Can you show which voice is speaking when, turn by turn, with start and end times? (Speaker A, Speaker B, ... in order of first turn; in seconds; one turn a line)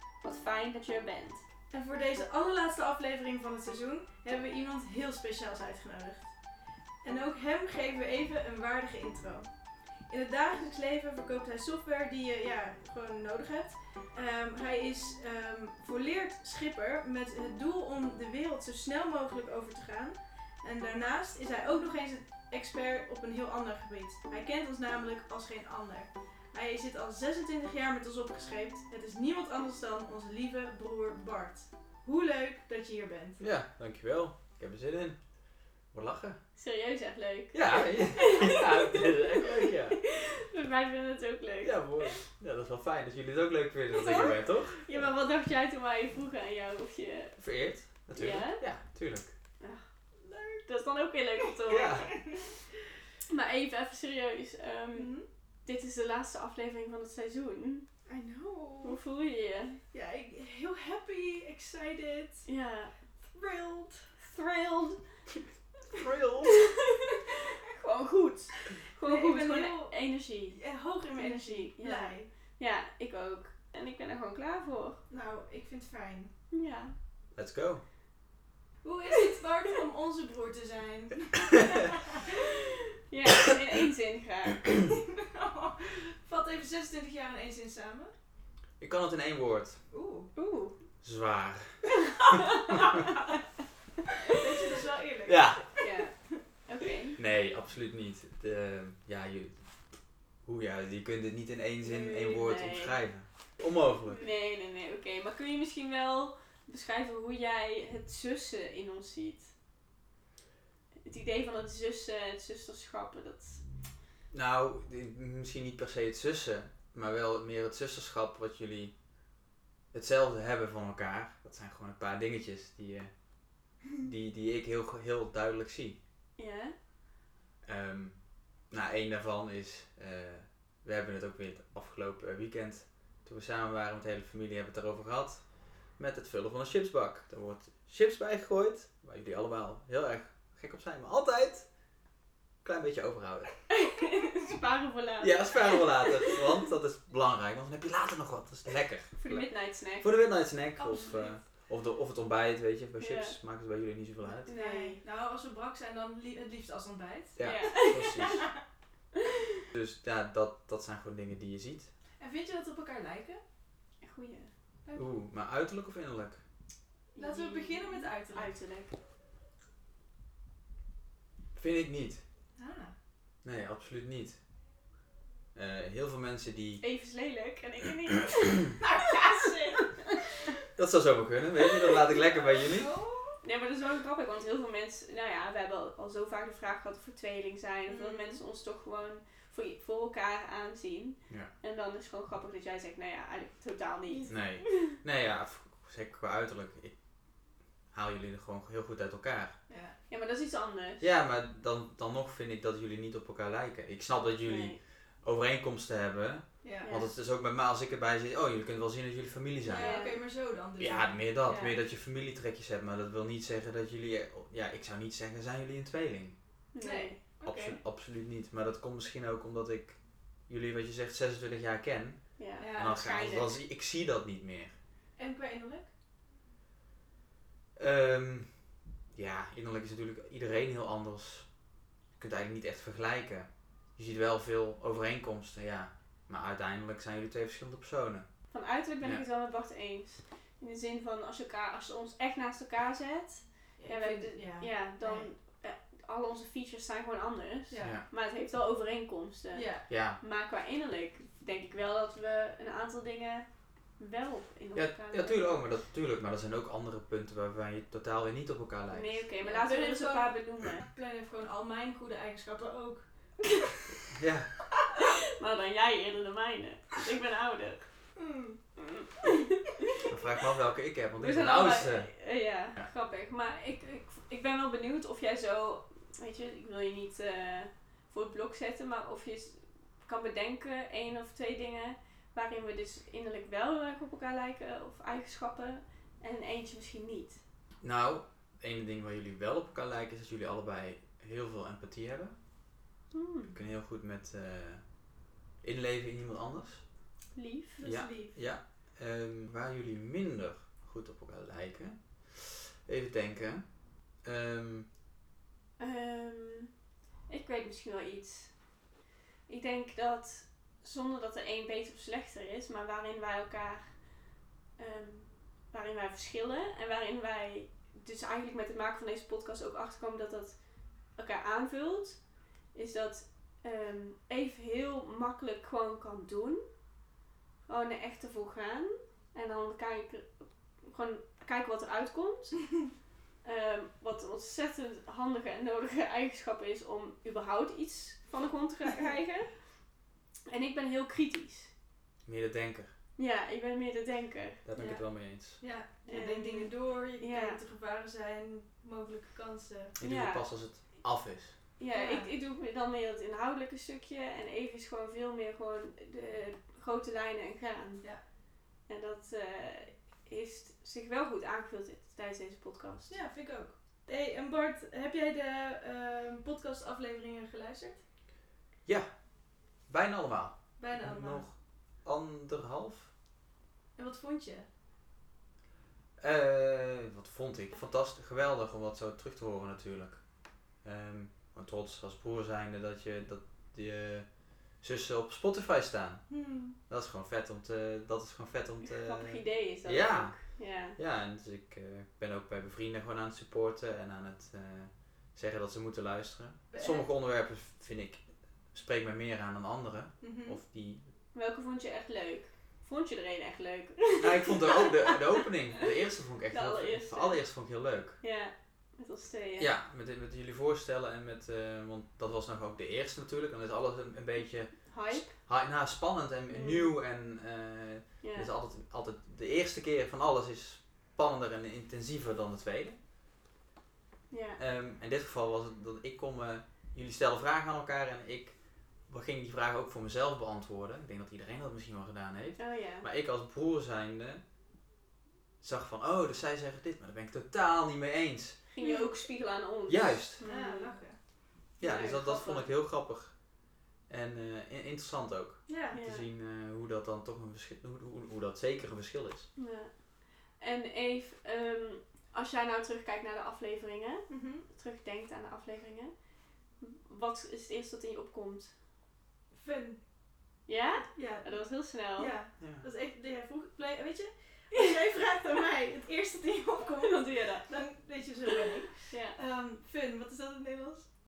Speaker A: 0.2-1.4
Speaker B: 1.7-6.3
Speaker B: 7.0-9.5
Speaker B: 10.1-33.4
Speaker C: 33.4-35.2
Speaker C: 35.9-36.4
Speaker A: 36.6-42.2
Speaker C: 37.5-40.0
Speaker C: 41.6-45.1
Speaker A: 43.9-47.4
Speaker C: 47.4-49.3
Speaker A: 48.1-48.6
Speaker B: 50.2-50.6
Speaker A: 50.6-52.1
Speaker C: 51.7-52.1
Speaker B: 52.1-52.5
Speaker A: 53.3-55.1
Speaker B: 54.9-55.3
Speaker A: 55.7-57.9
Speaker B: 58.1-59.0
Speaker A: 58.8-59.8
Speaker B: 59.9-62.5
Speaker A: 62.5-62.9
Speaker B: 63.3-64.2
Speaker A: 64.2-65.0
Speaker C: 65.9-66.7
Speaker A: 66.4-70.6
Speaker B: 69.0-70.0
Speaker B: 70.5-72.3
Speaker A: 71.2-75.0
Speaker B: 75.1-76.3
Speaker A: 76.5-77.0
Speaker C: 77.3-77.8
Speaker B: 78.8-82.3
Speaker A: 83.1-84.8
Speaker B: 84.9-88.1
Speaker C: 88.8-89.8
Speaker B: 89.9-90.3
Speaker A: 90.3-90.8
Speaker C: 91.0-92.0
Speaker A: 92.1-93.2
Speaker B: 94.3-96.4
Speaker C: 95.3-95.7
Speaker A: 95.8-97.2
Speaker C: 97.2-99.9
Speaker C: 100.4-104.2
Speaker A: 101.9-103.0
Speaker A: 104.2-109.5
Speaker A: 111.0-113.6
Speaker C: 114.3-119.0
Speaker C: 119.9-126.0
Speaker A: 126.4-126.8
Speaker C: 127.6-141.7
Speaker C: 142.6-143.6
Speaker A: 143.7-146.4
Speaker C: 145.2-154.5
Speaker A: 149.2-150.1
Speaker B: 150.8-151.4
Speaker A: 153.0-153.4
Speaker B: 154.4-158.5
Speaker A: 154.5-155.0
Speaker C: 157.4-158.4
Speaker A: 157.4-158.4
Speaker C: 159.7-161.9
Speaker B: 162.2-163.4
Speaker A: 164.0-164.5
Speaker C: 165.0-166.4
Speaker A: 167.2-168.9
Speaker B: 167.2-168.6
Speaker C: 171.6-172.2
Speaker B: 172.6-172.9
Speaker C: 173.4-174.4
Speaker C: 175.6-176.8
Speaker A: 176.8-180.2
Speaker B: 179.0-179.9
Speaker C: 180.8-182.9
Speaker B: 182.6-183.4
Speaker A: 183.4-195.0
Speaker B: 187.9-188.4
Speaker B: 194.1-194.4
Speaker C: 194.3-197.0
Speaker C: 197.9-199.6
Speaker B: 199.7-199.9
Speaker A: 200.1-201.1
Speaker C: 201.0-209.9
Speaker A: 204.4-204.8
Speaker B: 206.6-206.9
Speaker A: 206.8-207.1
Speaker B: 209.7-211.2
Speaker A: 209.7-210.2
Speaker C: 210.8-216.4
Speaker A: 211.5-211.8
Speaker A: 216.7-217.2
Speaker B: 216.8-217.8
Speaker C: 217.4-224.7
Speaker A: 222.4-223.6
Speaker B: 222.6-223.0
Speaker B: 225.2-225.9
Speaker C: 227.8-231.5
Speaker C: 232.2-238.4
Speaker A: 238.5-253.5
Speaker B: 243.8-245.3
Speaker B: 247.7-248.0
Speaker B: 249.5-249.9
Speaker C: 249.9-250.2
Speaker A: 254.0-255.7
Speaker C: 254.8-259.2
Speaker A: 258.9-260.9
Speaker B: 259.4-263.1
Speaker C: 264.1-264.5
Speaker A: 264.9-267.9
Speaker B: 268.2-268.6
Speaker A: 268.8-270.0
Speaker C: 270.1-272.1
Speaker A: 271.2-287.4
Speaker C: 287.8-292.4
Speaker A: 293.1-293.6
Speaker C: 293.5-294.9
Speaker C: 295.6-296.9
Speaker A: 297.3-297.8
Speaker B: 297.8-298.4
Speaker C: 297.8-304.9
Speaker A: 305.8-306.7
Speaker A: 307.3-308.6
Speaker A: 309.5-314.0
Speaker A: 314.8-322.2
Speaker A: 322.7-326.6
Speaker A: 327.7-330.3
Speaker A: 330.8-332.7
Speaker A: 333.4-339.5
Speaker A: 340.5-341.7
Speaker C: 342.3-342.9
Speaker A: 343.2-344.6
Speaker C: 344.6-345.6
Speaker B: 344.8-350.0
Speaker A: 346.1-347.6
Speaker C: 350.0-351.6
Speaker A: 350.0-350.5
Speaker A: 351.8-358.1
Speaker B: 351.9-352.3
Speaker A: 358.9-363.2
Speaker B: 363.1-368.0
Speaker C: 368.9-369.1
Speaker C: 369.8-373.1
Speaker B: 370.8-371.5
Speaker B: 374.0-374.7
Speaker C: 376.2-386.3
Speaker B: 386.3-386.8
Speaker C: 386.9-401.1
Speaker A: 388.9-391.0
Speaker B: 396.7-397.1
Speaker B: 400.2-400.6
Speaker A: 401.3-405.1
Speaker C: 404.2-408.2
Speaker A: 406.5-407.4
Speaker A: 408.2-409.7
Speaker C: 409.6-423.0
Speaker A: 414.9-415.4
Speaker A: 416.5-416.9
Speaker A: 418.2-418.5
Speaker A: 424.3-424.6
Speaker C: 424.6-434.4
Speaker A: 432.6-433.1
Speaker C: 435.6-438.6
Speaker A: 438.7-441.0
Speaker B: 438.8-439.1
Speaker C: 439.9-440.4
Speaker B: 440.4-441.2
Speaker C: 441.8-443.4
Speaker A: 441.8-442.6
Speaker C: 444.1-449.5
Speaker B: 445.7-446.0
Speaker A: 445.9-446.3
Speaker A: 449.6-456.1
Speaker B: 454.3-454.7
Speaker A: 456.8-458.8
Speaker B: 459.5-460.0
Speaker A: 460.7-462.4
Speaker B: 461.1-471.1
Speaker C: 462.6-462.9
Speaker A: 467.0-467.7
Speaker A: 468.9-469.4